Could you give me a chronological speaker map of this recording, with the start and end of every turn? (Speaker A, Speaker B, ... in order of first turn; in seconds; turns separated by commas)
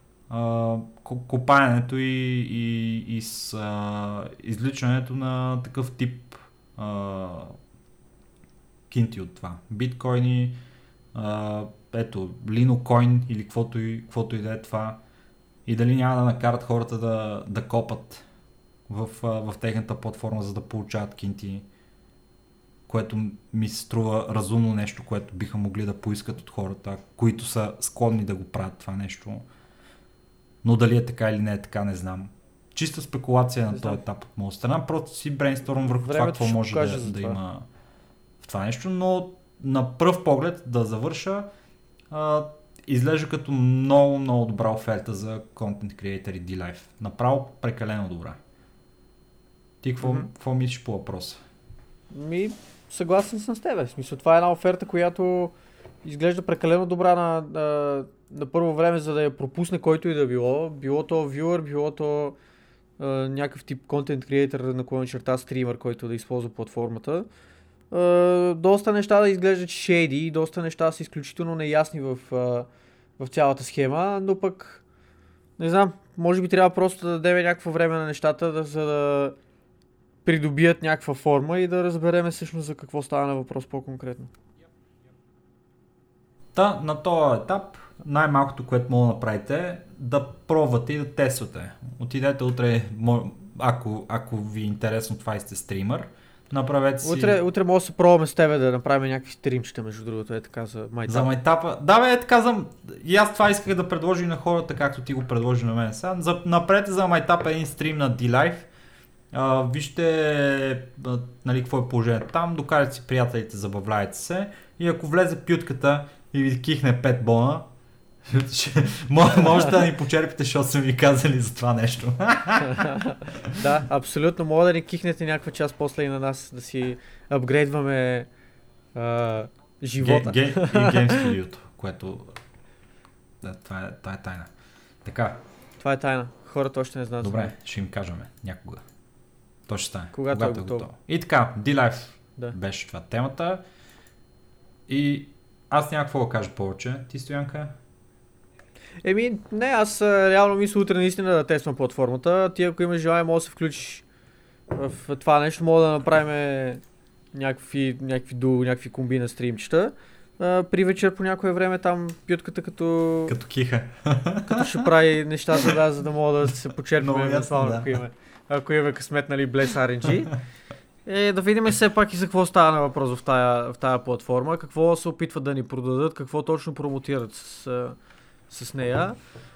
Speaker A: 0.3-7.5, Speaker A: 8.9-10.6, Speaker A: 11.1-15.0, Speaker A: 15.7-18.2, Speaker A: 18.9-21.7, Speaker A: 22.9-29.4, Speaker A: 30.6-37.7, Speaker B: 35.9-37.4, Speaker A: 38.4-41.5, Speaker A: 42.1-48.4, Speaker A: 49.8-51.4, Speaker B: 50.0-50.3, Speaker B: 52.1-62.4, Speaker B: 63.0-67.3, Speaker B: 67.9-72.7, Speaker B: 73.2-74.8, Speaker B: 75.6-79.4, Speaker B: 80.2-84.3, Speaker A: 86.5-97.4, Speaker B: 97.0-101.3, Speaker A: 101.1-108.7, Speaker A: 109.3-117.7, Speaker A: 118.2-122.9, Speaker B: 122.6-128.3, Speaker B: 128.9-131.3, Speaker A: 130.0-132.4, Speaker A: 133.4-134.5, Speaker A: 135.1-135.4, Speaker B: 135.8-137.5, Speaker A: 137.2-138.8, Speaker A: 139.7-143.6, Speaker B: 140.1-140.9, Speaker A: 144.9-147.8, Speaker B: 149.0-154.1, Speaker B: 154.7-156.8, Speaker B: 157.3-163.4, Speaker A: 163.3-164.9, Speaker B: 164.5-170.3, Speaker A: 167.0-168.0, Speaker B: 171.1-178.0, Speaker B: 178.5-179.2